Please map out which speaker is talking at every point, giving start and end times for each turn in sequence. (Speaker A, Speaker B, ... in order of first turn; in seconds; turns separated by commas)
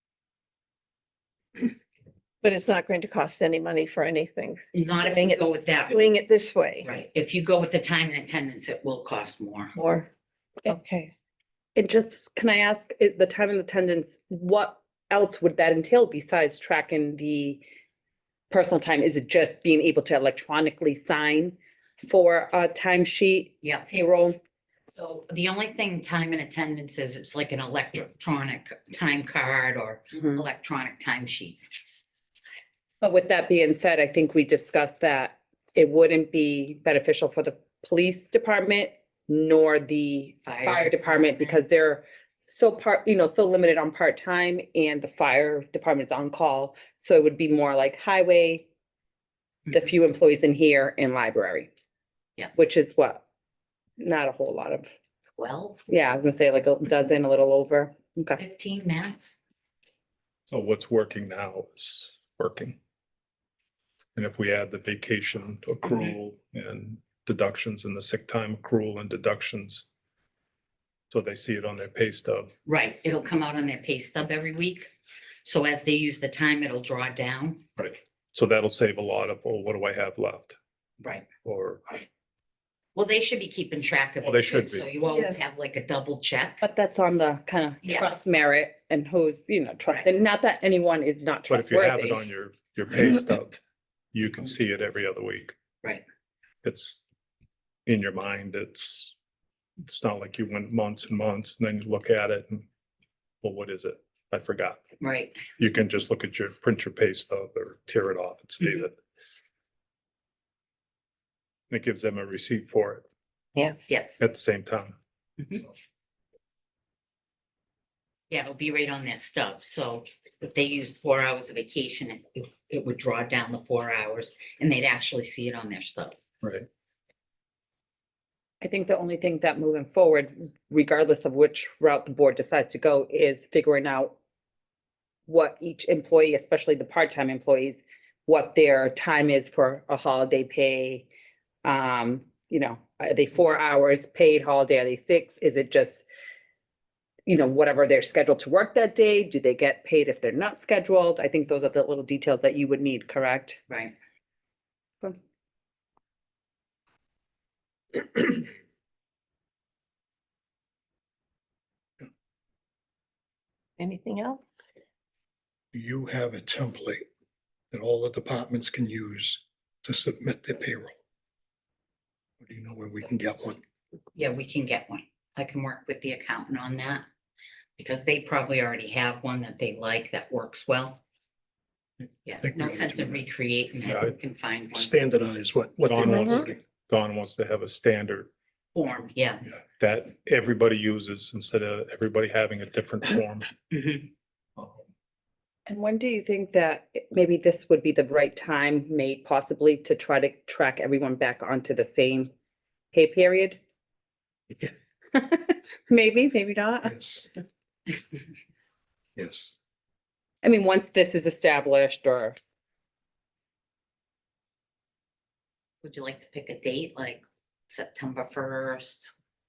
Speaker A: 2.4-6.9, Speaker B: 4.7-6.0, Speaker B: 6.8-9.7, Speaker A: 9.8-10.1, Speaker A: 10.7-11.1, Speaker C: 11.8-17.6, Speaker C: 18.5-24.4, Speaker B: 23.6-23.9, Speaker B: 24.9-31.6, Speaker C: 33.0-48.7, Speaker B: 40.5-41.6, Speaker C: 49.7-51.7, Speaker C: 52.6-53.2, Speaker C: 54.0-54.9, Speaker B: 55.4-55.8, Speaker C: 55.9-58.4, Speaker B: 58.4-59.4, Speaker D: 60.5-62.8, Speaker D: 64.2-69.8, Speaker D: 71.1-72.5, Speaker B: 72.7-74.9, Speaker B: 75.4-77.6, Speaker D: 77.8-80.5, Speaker D: 81.4-82.0, Speaker B: 83.0-86.6, Speaker D: 84.2-84.9, Speaker C: 86.6-92.2, Speaker B: 87.8-88.1, Speaker D: 91.5-93.6, Speaker D: 94.1-95.5, Speaker D: 96.6-97.0, Speaker D: 97.9-99.1, Speaker D: 99.8-102.7, Speaker D: 103.4-104.8, Speaker B: 105.0-105.4, Speaker D: 105.6-109.0, Speaker D: 111.7-113.0, Speaker A: 113.6-113.8, Speaker B: 113.9-114.2, Speaker D: 114.2-115.0, Speaker B: 118.3-126.2, Speaker D: 126.4-126.7, Speaker C: 128.6-134.1, Speaker C: 135.3-141.1, Speaker C: 141.6-146.0, Speaker C: 147.3-153.6, Speaker A: 163.8-164.4, Speaker E: 165.7-167.0, Speaker E: 167.7-171.0, Speaker E: 172.4-173.6, Speaker B: 174.2-177.1, Speaker B: 177.8-181.0, Speaker B: 182.2-185.1, Speaker E: 182.4-183.3, Speaker D: 183.9-184.1, Speaker E: 184.7-186.6, Speaker D: 185.9-188.3, Speaker B: 188.8-189.4, Speaker D: 189.8-193.5, Speaker B: 193.7-194.1, Speaker C: 195.7-202.3, Speaker C: 202.9-203.6, Speaker C: 205.1-206.9, Speaker E: 206.8-207.3, Speaker E: 209.2-209.6, Speaker C: 210.4-212.4, Speaker B: 215.8-219.1